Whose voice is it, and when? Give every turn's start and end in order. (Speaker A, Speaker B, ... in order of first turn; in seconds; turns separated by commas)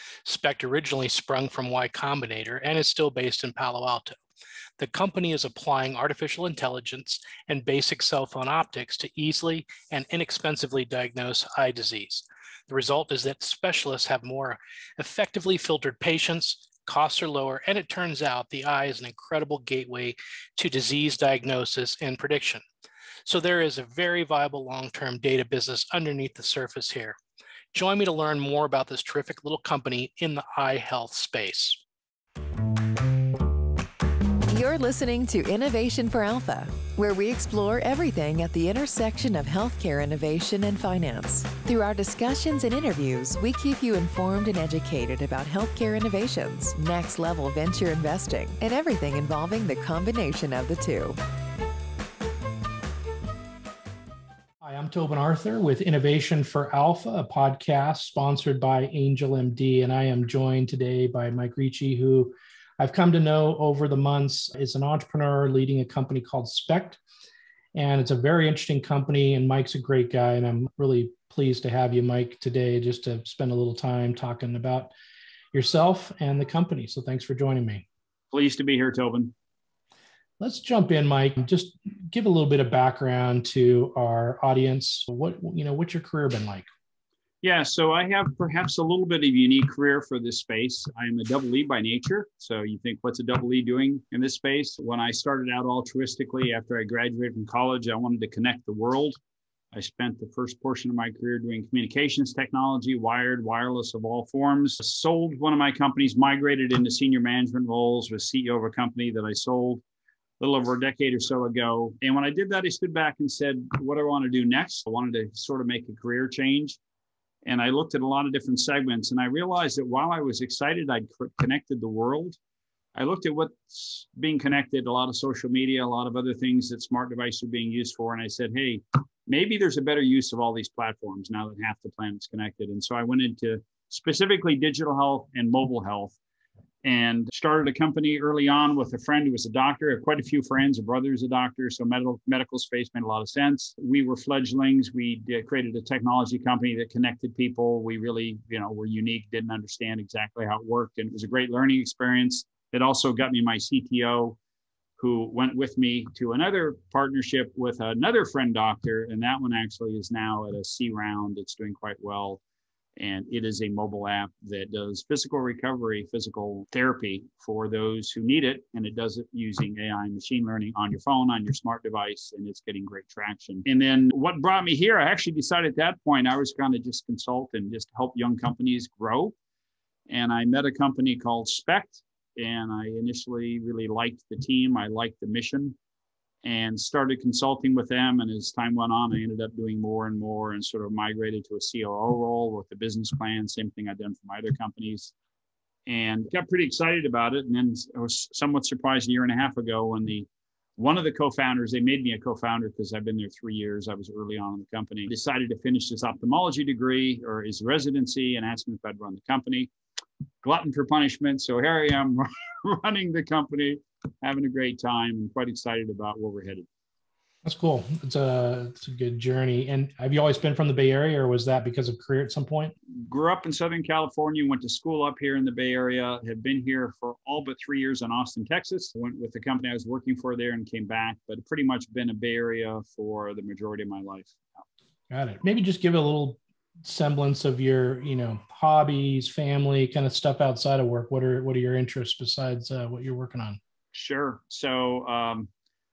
Speaker A: 0.2-4.2, Speaker A: 4.8-22.6, Speaker A: 23.2-27.2, Speaker A: 27.7-31.8, Speaker B: 34.5-51.2, Speaker A: 54.6-67.0, Speaker A: 67.7-74.9, Speaker A: 75.5-77.8, Speaker C: 78.3-79.3, Speaker A: 80.4-86.7, Speaker C: 87.4-99.2, Speaker C: 99.7-109.8, Speaker C: 110.4-116.8, Speaker C: 117.5-122.4, Speaker C: 123.0-136.2, Speaker C: 136.8-154.4, Speaker C: 155.0-162.4, Speaker C: 163.0-179.3, Speaker C: 180.1-185.8, Speaker C: 186.4-195.1, Speaker C: 195.9-209.7, Speaker C: 210.4-216.7, Speaker A: 217.4-222.7, Speaker C: 222.9-234.6, Speaker A: 235.1-243.6, Speaker C: 243.9-245.5